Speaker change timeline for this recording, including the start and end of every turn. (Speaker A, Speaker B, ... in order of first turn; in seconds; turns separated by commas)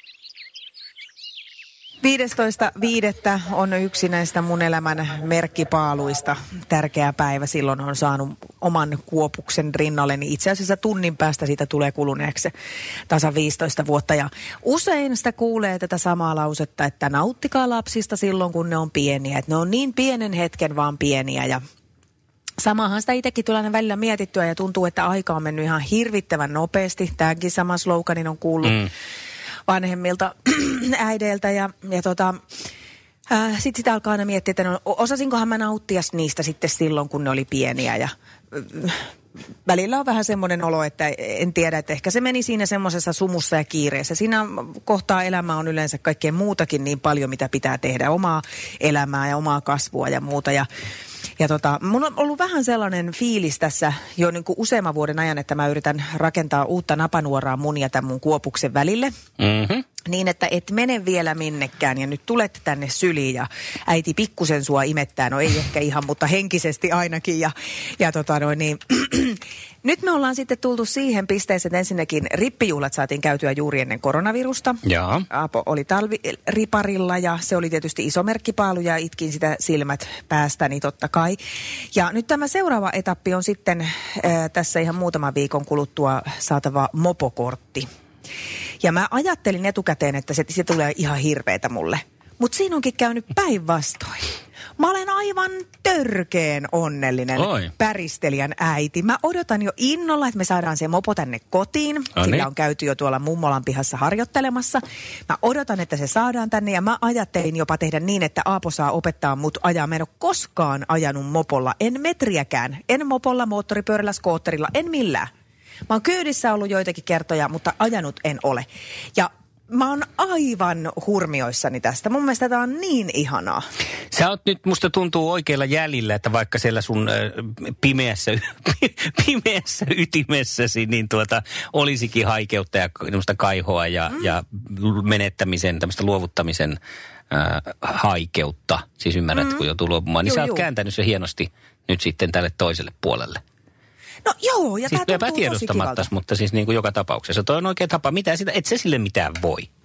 Speaker A: 2.0-12.5, Speaker A: 13.1-21.6, Speaker A: 22.6-28.9, Speaker B: 28.6-28.9, Speaker A: 29.7-32.4, Speaker A: 33.3-39.1, Speaker A: 39.6-50.7, Speaker A: 51.4-59.1, Speaker B: 59.4-59.8, Speaker A: 60.1-81.4, Speaker B: 74.9-75.2, Speaker A: 82.0-87.9, Speaker A: 88.8-115.3, Speaker B: 97.4-97.7, Speaker B: 102.2-102.5, Speaker A: 115.9-123.6, Speaker B: 124.1-136.8, Speaker B: 137.3-143.4, Speaker A: 139.3-139.6, Speaker A: 140.2-140.7, Speaker A: 144.3-146.1, Speaker B: 144.9-149.7